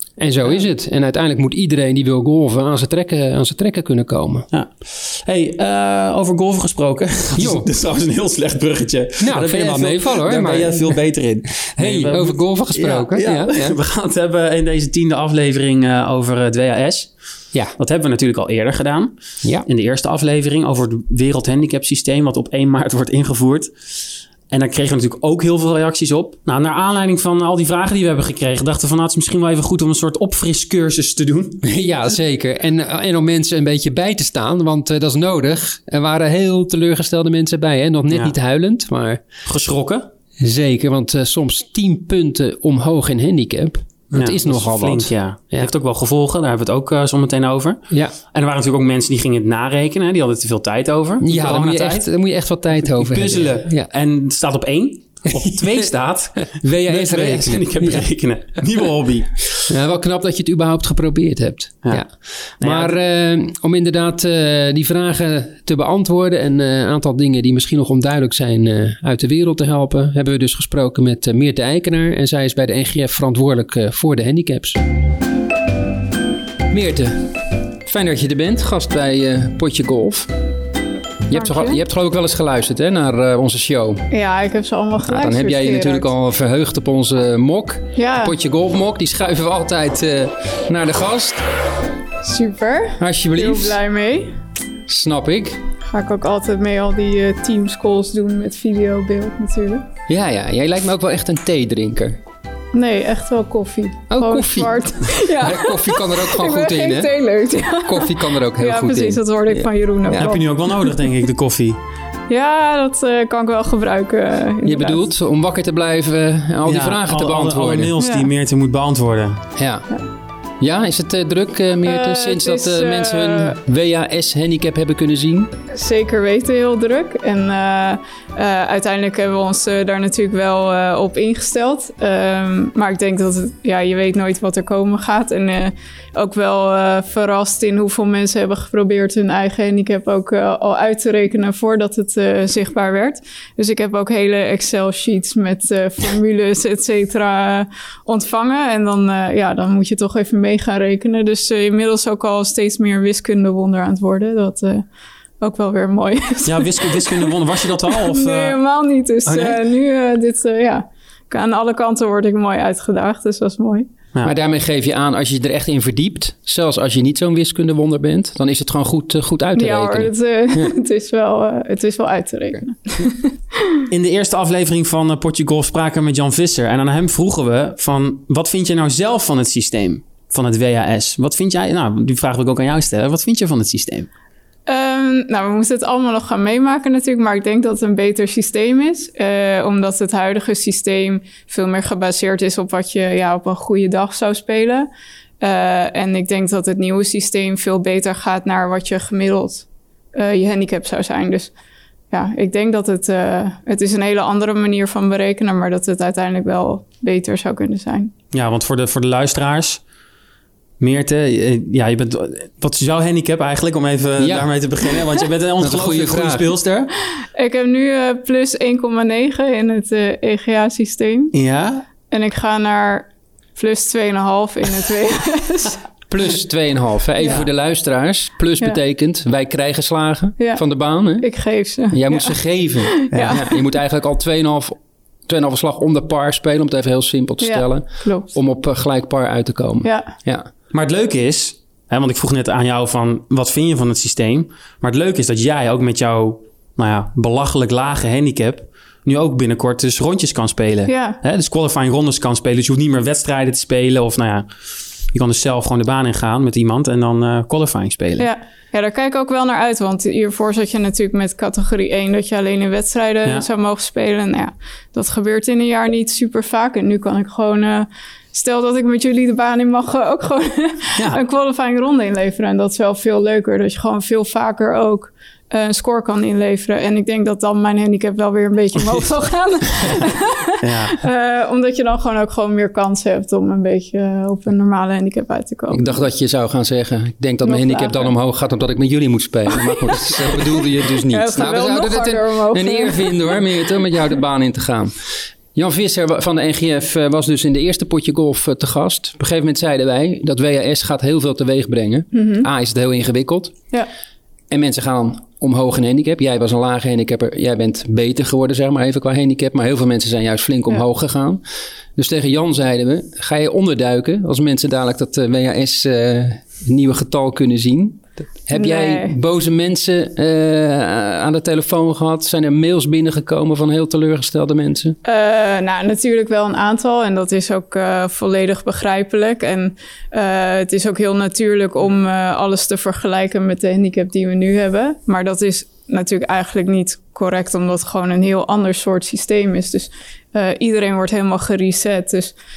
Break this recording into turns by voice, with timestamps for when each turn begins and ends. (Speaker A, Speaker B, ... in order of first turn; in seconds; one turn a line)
Speaker A: 0.2-4.5
Speaker B: 4.5-23.7
Speaker A: 7.3-7.7
Speaker A: 9.2-11.0
Speaker A: 11.6-13.8
Speaker B: 24.5-31.6
Speaker A: 31.6-39.2
Speaker B: 38.1-38.3
Speaker B: 39.4-40.1
Speaker A: 40.4-45.7
Speaker B: 44.1-52.1
Speaker A: 51.2-53.9
Speaker B: 52.8-59.7
Speaker A: 55.3-55.8
Speaker A: 56.5-58.1
Speaker A: 59.7-74.8
Speaker B: 61.8-63.0
Speaker A: 76.7-77.3
Speaker A: 77.8-80.3
Speaker A: 81.3-84.1
Speaker C: 81.3-81.8
Speaker C: 84.1-86.1
Speaker A: 85.0-91.4
Speaker C: 88.0-88.3
Speaker C: 92.2-94.3
Speaker A: 93.0-93.8
Speaker A: 94.9-95.6
Speaker C: 95.9-99.8
Speaker A: 100.1-102.2
Speaker C: 102.7-111.0
Speaker A: 104.1-110.3
Speaker B: 110.2-111.8
Speaker C: 112.3-115.1
Speaker A: 114.6-117.9
Speaker B: 116.6-119.4
Speaker C: 118.0-118.3
Speaker A: 119.6-119.9
Speaker A: 120.6-125.5
Speaker C: 121.8-123.6
Speaker C: 125.7-154.9
Speaker C: 155.4-163.9
Speaker B: 156.4-158.6
Speaker B: 159.2-159.6
Speaker A: 164.2-170.7
Speaker C: 169.5-173.6
Speaker B: 173.9-184.1
Speaker C: 184.7-194.9
Speaker C: 195.4-201.5
Speaker C: 202.1-208.1
Speaker B: 208.3-209.8
Speaker B: 210.8-216.9
Speaker A: 214.2-214.5
Speaker A: 215.6-216.5
Speaker C: 217.2-221.3
Speaker B: 221.3-221.8
Speaker C: 222.1-225.8
Speaker A: 226.1-240.5
Speaker C: 227.2-227.4
Speaker C: 230.4-233.6
Speaker B: 233.1-233.4
Speaker C: 237.4-238.3
Speaker C: 239.8-240.1
Speaker B: 240.7-254.5
Speaker C: 250.9-251.2
Speaker B: 255.1-258.3
Speaker C: 258.2-286.0
Speaker B: 280.6-281.0
Speaker A: 285.7-294.9
Speaker C: 287.4-288.1
Speaker C: 289.5-290.4
Speaker C: 291.1-293.4
Speaker A: 295.5-303.6
Speaker C: 302.1-302.5
Speaker A: 304.5-311.4
Speaker A: 311.9-324.9
Speaker C: 318.5-319.1
Speaker C: 325.0-342.4